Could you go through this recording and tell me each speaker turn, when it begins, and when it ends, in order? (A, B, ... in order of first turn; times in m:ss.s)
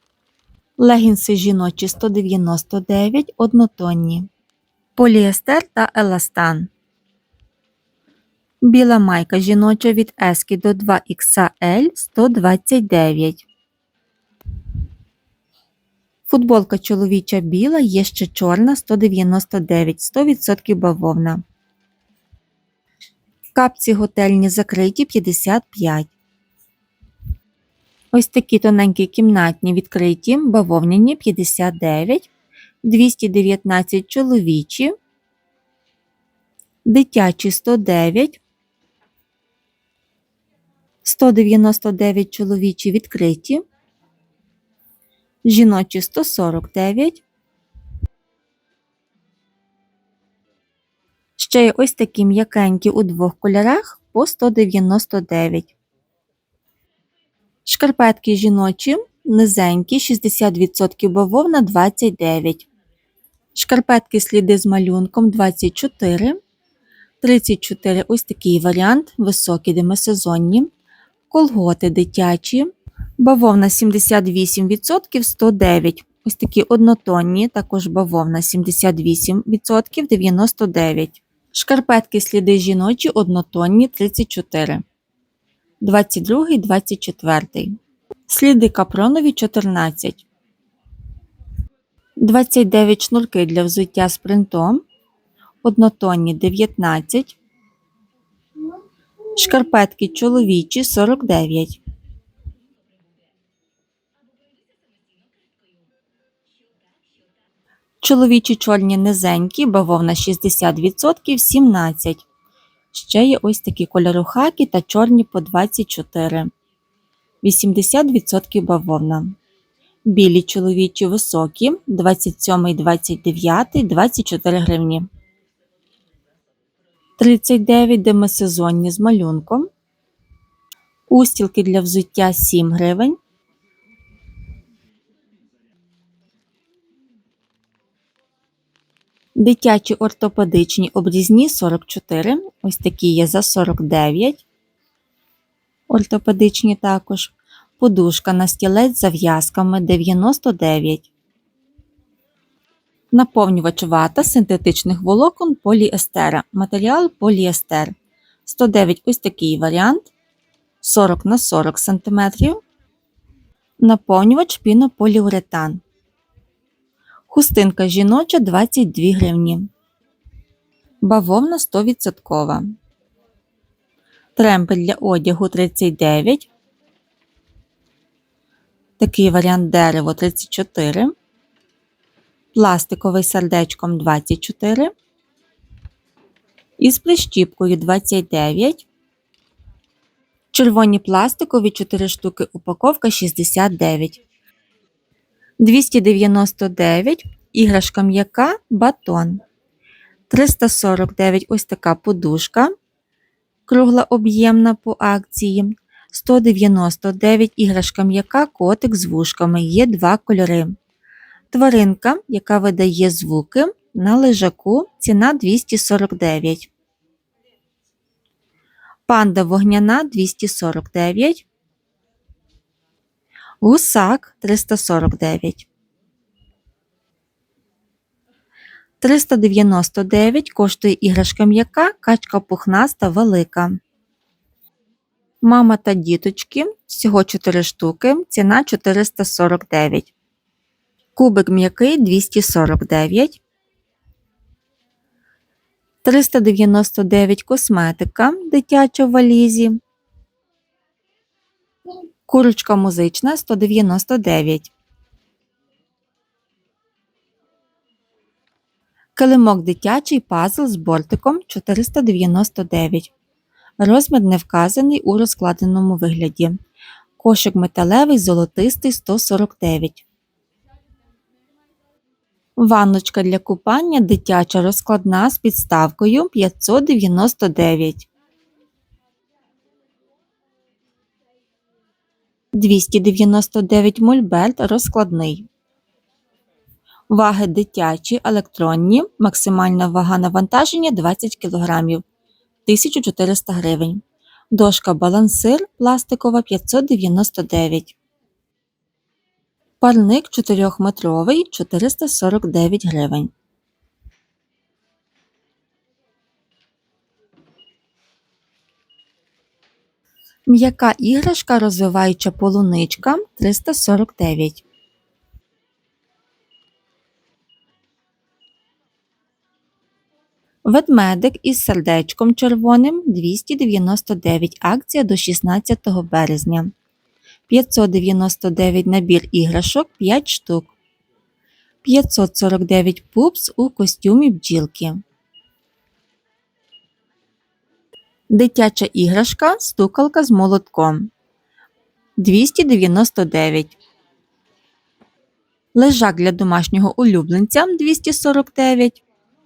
0:00.8-0:04.3 A
0:05.0-0:06.7 A
0:08.6-0:13.4 A
0:16.3-0:21.4 A
0:23.5-0:26.1 A
0:28.1-0:32.3 A
0:32.8-0:34.9 A
0:36.8-0:38.4 A
0:41.0-0:43.6 A
0:45.4-0:47.2 A
0:51.4-0:55.7 A
0:57.6-1:02.7 A
1:03.5-1:06.4 A
1:07.2-1:10.7 A
1:11.3-1:24.8 A
1:25.8-1:27.8 A
1:28.3-1:30.2 A
1:32.2-1:34.8 A
1:35.6-1:37.4 A
1:39.4-1:41.8 A
1:48.0-1:52.2 A
1:52.9-1:56.5 A
1:57.4-1:59.4 A
2:00.0-2:05.1 A
2:07.2-2:09.7 A
2:11.1-2:13.2 A
2:19.4-2:24.4 A
2:25.9-2:31.1 A
2:33.1-2:37.9 A
2:38.4-2:40.1 A
2:40.8-2:42.6 A
2:43.8-2:45.8 A
2:47.3-2:49.7 A
2:51.0-2:52.6 A
2:54.4-2:56.5 A
2:59.0-3:01.1 A
3:02.5-3:04.9 A
3:06.8-3:08.9 A
3:10.5-3:14.2 A
3:15.6-3:19.4 A
3:20.3-3:22.7 A
3:23.7-3:30.7 A
3:31.5-3:36.7 A
3:39.1-3:41.4 A
3:43.6-3:45.7 A
3:49.0-3:53.8 A
3:55.4-4:00.1 A
4:01.2-4:03.4 A
4:06.0-4:09.8 A
4:12.3-4:14.7 A
4:19.1-4:23.1 A
4:23.8-4:26.6 A
4:27.2-4:30.0 A
4:32.6-4:38.1 A
4:42.5-4:45.5 A
4:47.1-4:52.0 A
4:52.6-4:54.0 A
4:54.5-4:58.0 A
4:59.8-5:03.3 A
5:10.5-5:14.6 A
5:20.6-5:26.7 A
5:27.5-5:30.7 A
5:31.8-5:35.0 A
5:38.3-5:41.1 A
5:42.2-5:43.7 A
5:45.7-5:49.0 A